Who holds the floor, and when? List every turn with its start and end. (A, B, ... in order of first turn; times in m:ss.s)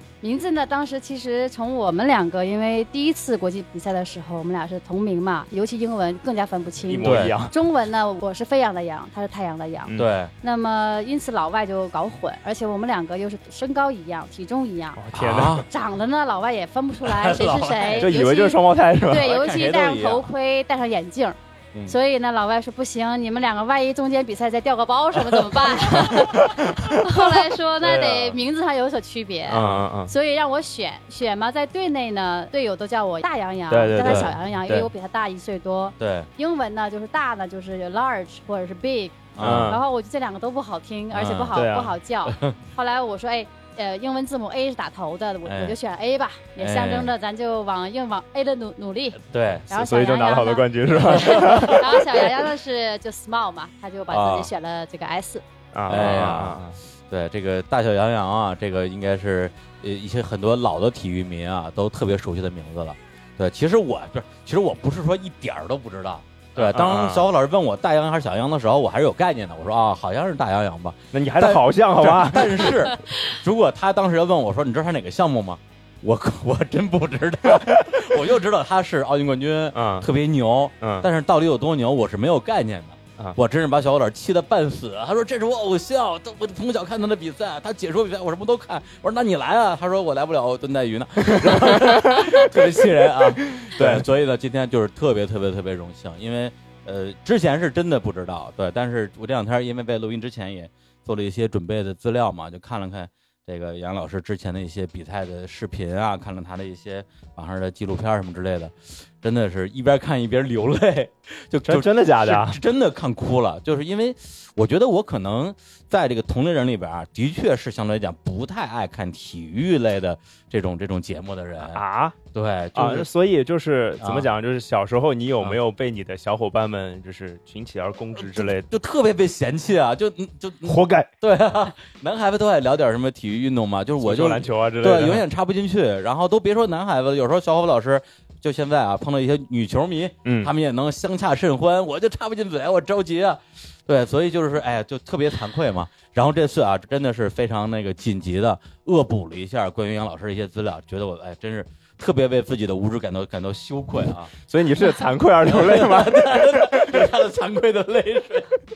0:00.2-0:15.0 A
0:06.9-0:07.5 B
0:07.0-0:07.3 C
0:09.9-0:10.3 C
0:15.0-0:15.6 B
0:15.1-0:15.7 C
0:15.6-0:55.4 A
0:17.0-0:18.1 C
0:18.0-0:19.3 B
0:19.1-0:20.3 C
0:25.2-0:27.0 C
0:26.4-0:26.9 B
0:27.8-0:28.4 C
0:29.5-0:30.1 B
0:29.6-0:29.8 C
0:33.7-0:34.3 B
0:33.9-0:34.9 C
0:36.0-0:36.3 C
0:39.3-0:39.8 C
0:39.4-0:39.8 B
0:41.1-0:41.7 C
0:41.5-0:42.0 B
0:42.3-0:42.6 C
0:45.4-0:45.8 C
0:46.6-0:47.1 C
0:49.3-0:49.7 C
0:49.7-0:52.3 B
0:51.2-0:51.8 C
0:54.1-0:54.5 C
0:55.7-0:56.8 B
0:55.9-2:01.8 C
1:06.6-1:07.2 B
1:11.1-1:12.9 B
1:19.7-1:20.1 B
1:20.8-1:21.1 B
1:31.4-1:32.4 B
1:33.6-1:34.1 B
1:51.7-1:52.6 B
2:01.7-2:02.2 B
2:02.3-2:03.1 C
2:02.8-2:08.7 B
2:04.0-2:04.3 C
2:08.2-2:34.3 C
2:10.6-2:11.1 B
2:14.0-2:15.2 B
2:20.2-2:20.5 B
2:34.5-2:37.1 B
2:35.4-2:38.5 C